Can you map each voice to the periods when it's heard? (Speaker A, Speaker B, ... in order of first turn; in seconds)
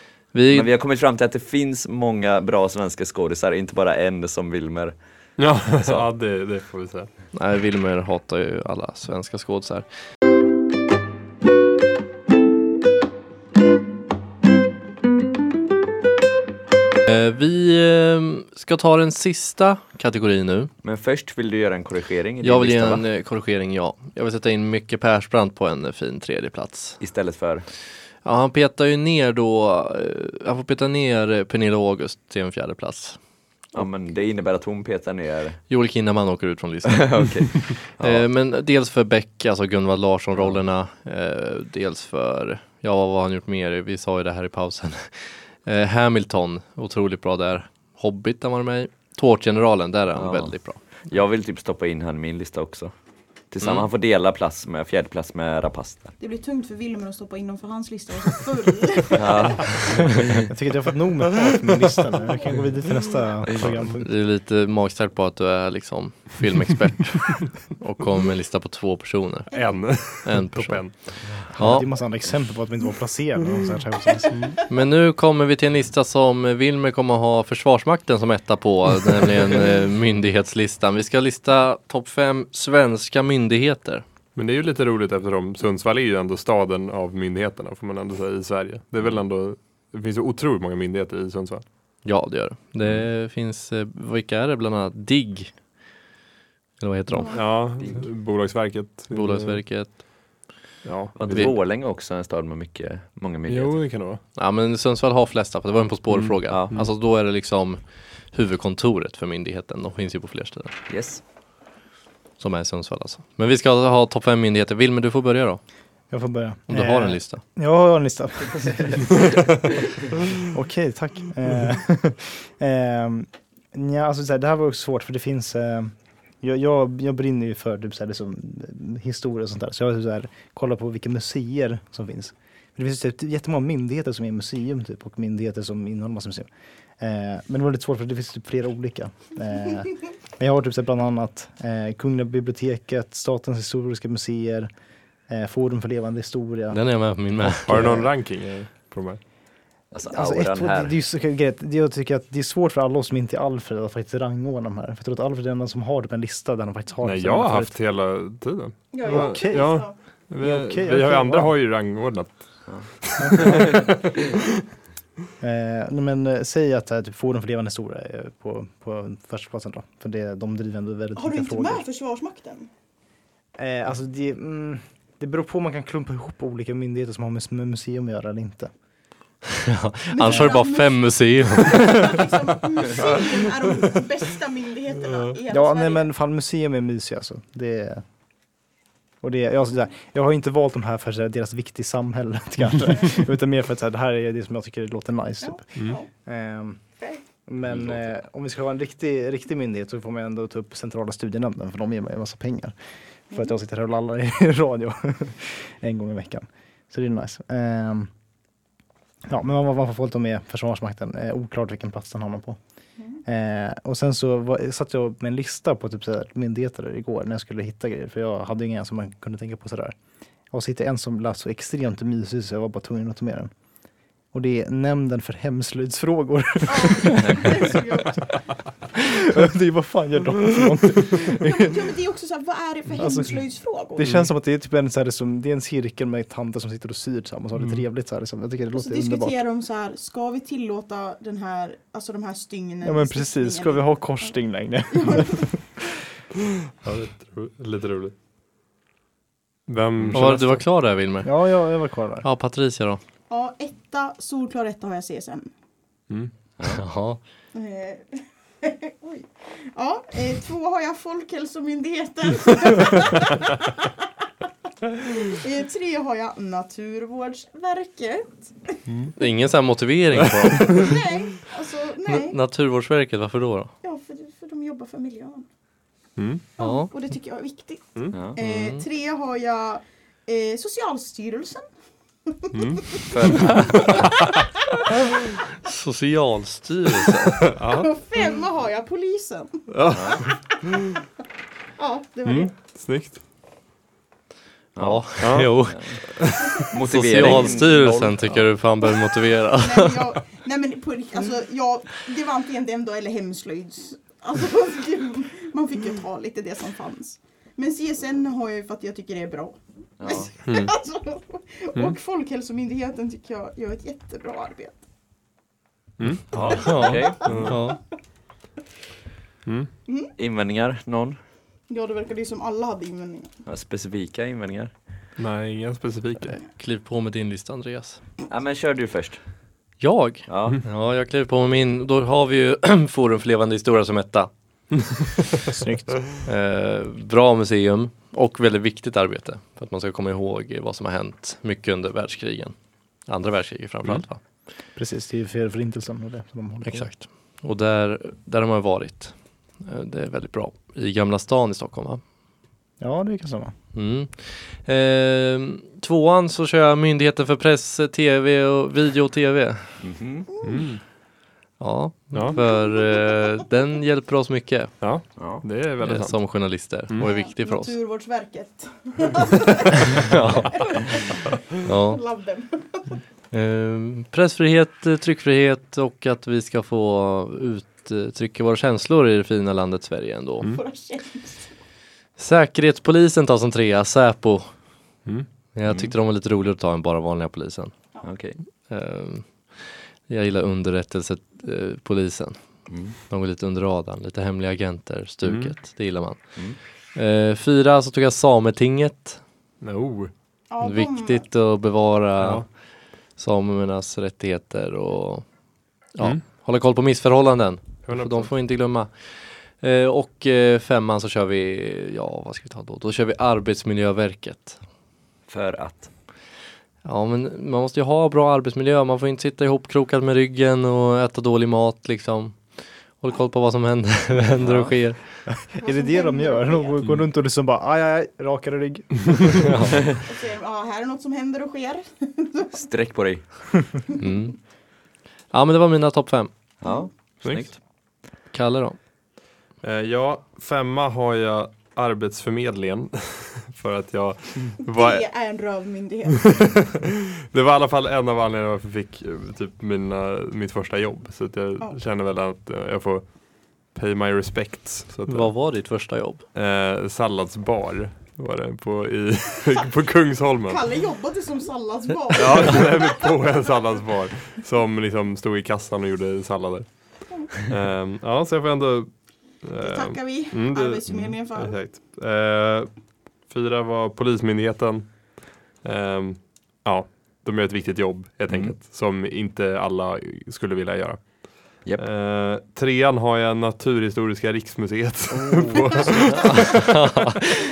Speaker A: 0.3-0.7, 7.3-9.8, 17.1-20.7, 22.4-27.0, 28.2-33.2, 35.7-37.1, 38.0-50.8, 64.0-69.5, 70.0-71.9, 74.7-84.0, 92.0-95.5, 96.8-97.4, 99.1-100.0, 104.3-107.8, 108.3-110.8, 112.4-115.6, 116.7-117.4, 146.7-147.8, 179.6-182.2, 250.1-251.3, 252.2-253.0, 256.6-257.2, 269.2-271.0, 272.1-273.7, 276.6-276.9, 278.4-278.8, 285.6-287.5, 294.8-295.8, 296.9-300.1, 316.3-317.8, 326.5-328.0, 329.8-334.3, 336.2-342.5, 343.1-344.2, 346.6-352.0, 353.7-359.8, 361.6-364.8, 365.8-367.8, 369.9-370.7, 371.6-372.0, 373.3-380.5, 382.2-384.5, 385.5-387.7, 388.7-389.4, 390.1-392.4, 393.0-396.3, 396.9-399.2, 400.6-402.5, 403.2-405.2, 405.9-414.6, 416.8-422.4, 423.0-425.0, 429.5-429.8, 434.0-434.4, 435.3-436.3, 438.3-438.8, 455.1-456.2, 486.3-487.3
Speaker B: 0.5-4.9, 20.8-23.0, 27.0-27.6, 33.7-35.6, 36.9-38.2, 50.1-52.9, 53.5-56.1, 59.1-60.5, 97.8-98.0, 101.2-103.8, 106.5-106.7, 110.9-111.2, 149.9-150.9, 197.7-198.0, 250.0-250.2, 278.1-278.4, 283.1-283.9, 289.9-290.2, 294.8-296.0, 296.6-298.5, 310.0-310.3, 316.4-317.5, 320.2-321.2, 323.4-324.7, 328.3-329.2, 330.3-330.6, 359.8-360.3, 365.2-365.4, 385.7-385.9, 388.0-388.4, 392.7-392.9, 415.3-415.9, 424.4-424.7, 432.5-433.2, 436.6-437.6, 478.3-478.5, 485.9-486.2
Speaker C: 5.4-7.1, 69.5-71.1, 84.3-91.6, 97.3-99.6, 100.8-101.5, 103.5-104.2, 106.1-106.8, 147.7-149.2, 157.0-162.4, 163.0-163.9, 234.0-234.3, 246.8-248.1, 249.7-250.6, 268.9-269.1, 276.2-276.4, 282.5-284.3, 287.6-287.9, 289.7-290.8, 292.2-293.2, 295.2-295.5, 296.1-296.6, 310.4-310.7, 316.0-317.6, 325.2-326.4, 360.4-360.8, 364.8-366.2, 395.2-395.5, 399.6-400.1, 402.2-402.4, 407.9-408.3, 439.6-445.0, 446.1-455.3, 456.3-460.6, 462.1-472.7, 473.3-487.0
Speaker D: 56.2-60.0, 97.1-97.5, 158.9-159.9, 171.1-172.7, 180.1-186.1, 195.4-196.1, 226.7-228.3, 231.3-234.1, 238.7-243.8, 244.9-245.6, 253.3-255.5, 257.5-264.1, 264.9-268.8, 270.6-272.4, 273.8-275.4, 276.6-281.6, 282.3-284.1, 287.6-289.7, 290.3-290.8, 291.8-292.5, 299.6-314.8, 316.6-317.6, 319.9-320.1, 321.7-323.4, 360.3-360.6, 362.3-362.8, 367.0-373.0, 380.5-381.5, 400.5-401.3, 425.6-426.7, 430.1-432.5, 444.7-446.6, 460.4-463.0, 469.6-471.6
Speaker E: 60.5-64.1, 71.5-74.3, 116.1-144.7, 145.3-146.8, 147.6-148.1, 150.1-157.7, 159.0-159.8, 160.4-161.5, 163.2-163.9, 165.4-171.8, 173.6-178.7, 185.5-188.0, 189.2-195.6, 196.2-196.8, 197.5-202.7, 203.3-208.1, 209.3-212.6, 213.2-219.9, 220.5-223.5, 224.3-227.8, 229.0-231.7, 233.0-233.4, 233.9-239.4, 242.8-245.6, 251.2-252.3, 335.5-336.0, 344.8-346.9, 352.8-353.5, 425.4-429.7, 485.1-485.9